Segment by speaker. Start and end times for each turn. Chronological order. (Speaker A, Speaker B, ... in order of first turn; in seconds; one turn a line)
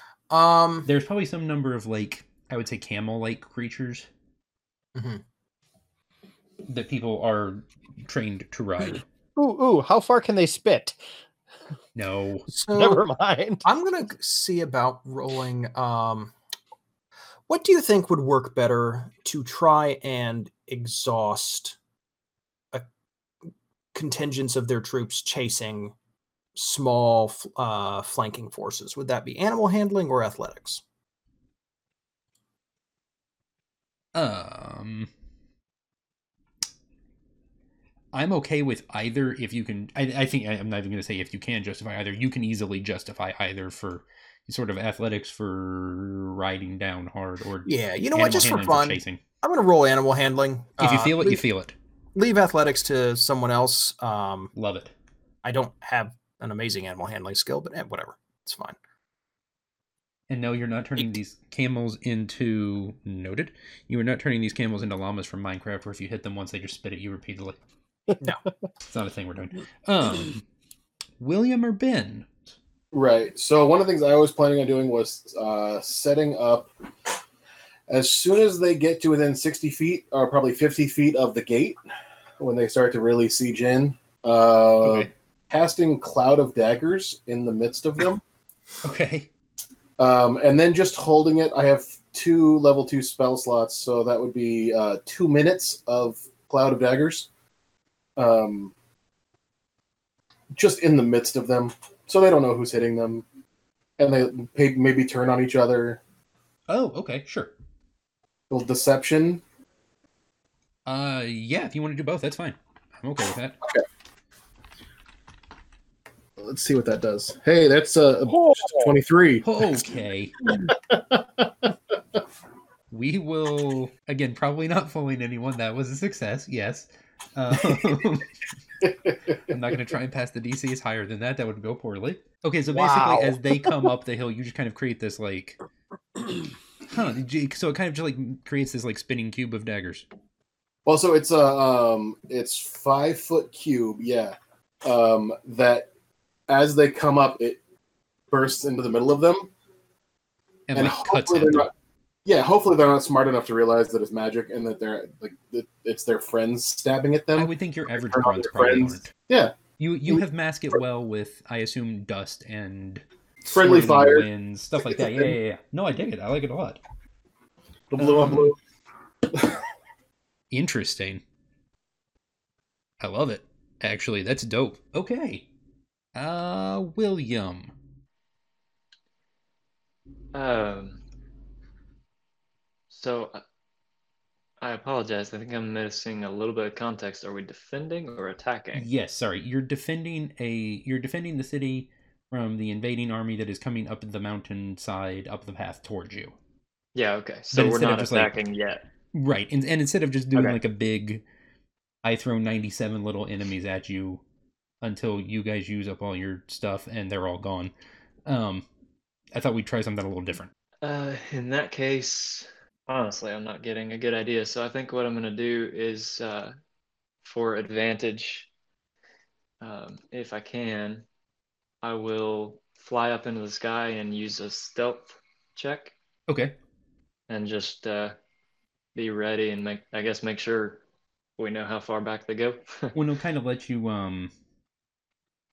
Speaker A: 0.3-0.9
Speaker B: 0.8-4.1
Speaker A: 4.9-5.2
Speaker B: 6.7-9.0
Speaker C: 9.3-11.0
Speaker B: 11.9-12.5
Speaker A: 12.5-13.0
Speaker C: 12.7-13.6
Speaker A: 13.6-16.3
Speaker A: 17.5-21.8
Speaker A: 23.9-25.9
Speaker A: 26.5-30.8
Speaker B: 34.1-35.1
Speaker B: 38.1-49.2
Speaker A: 47.6-51.4
Speaker B: 50.8-51.7
Speaker A: 52.1-54.5
Speaker B: 54.5-54.9
Speaker A: 55.4-58.8
Speaker B: 60.3-67.6
Speaker B: 68.8-70.4
Speaker B: 71.2-72.3
Speaker D: 72.9-76.7
Speaker D: 77.9-81.8
Speaker D: 82.4-88.2
Speaker B: 84.8-85.1
Speaker B: 88.8-89.3
Speaker D: 90.0-97.3
Speaker D: 98.2-98.7
Speaker D: 100.5-103.2
Speaker D: 104.0-106.0
Speaker B: 106.7-107.5
Speaker D: 108.5-109.4
Speaker B: 110.8-113.6
Speaker D: 116.4-119.5
Speaker B: 119.4-120.3
Speaker D: 120.5-121.7
Speaker B: 122.9-128.3
Speaker D: 128.8-129.6
Speaker B: 129.5-135.6
Speaker C: 132.7-133.4
Speaker B: 136.9-140.1
Speaker D: 140.8-145.9
Speaker D: 146.5-147.6
Speaker D: 148.3-149.5
Speaker B: 150.7-151.7
Speaker D: 150.7-151.7
Speaker D: 152.2-159.6
Speaker B: 157.3-159.1
Speaker B: 159.8-166.8
Speaker D: 163.4-165.3
Speaker D: 167.9-168.6
Speaker B: 168.0-168.5
Speaker B: 170.5-171.2
Speaker B: 173.0-175.5
Speaker B: 176.1-177.7
Speaker E: 180.3-181.0
Speaker E: 182.9-183.4
Speaker E: 184.6-188.9
Speaker B: 188.7-196.3
Speaker E: 196.9-198.8
Speaker B: 197.5-198.3
Speaker B: 199.1-201.2
Speaker B: 202.0-204.2
Speaker B: 204.8-207.7
Speaker B: 208.2-208.6
Speaker B: 209.3-210.5
Speaker E: 210.8-216.5
Speaker E: 217.2-218.5
Speaker E: 219.6-221.0
Speaker E: 221.8-225.9
Speaker B: 226.3-226.5
Speaker E: 227.3-228.1
Speaker E: 228.9-230.8
Speaker E: 231.4-232.9
Speaker B: 232.9-234.3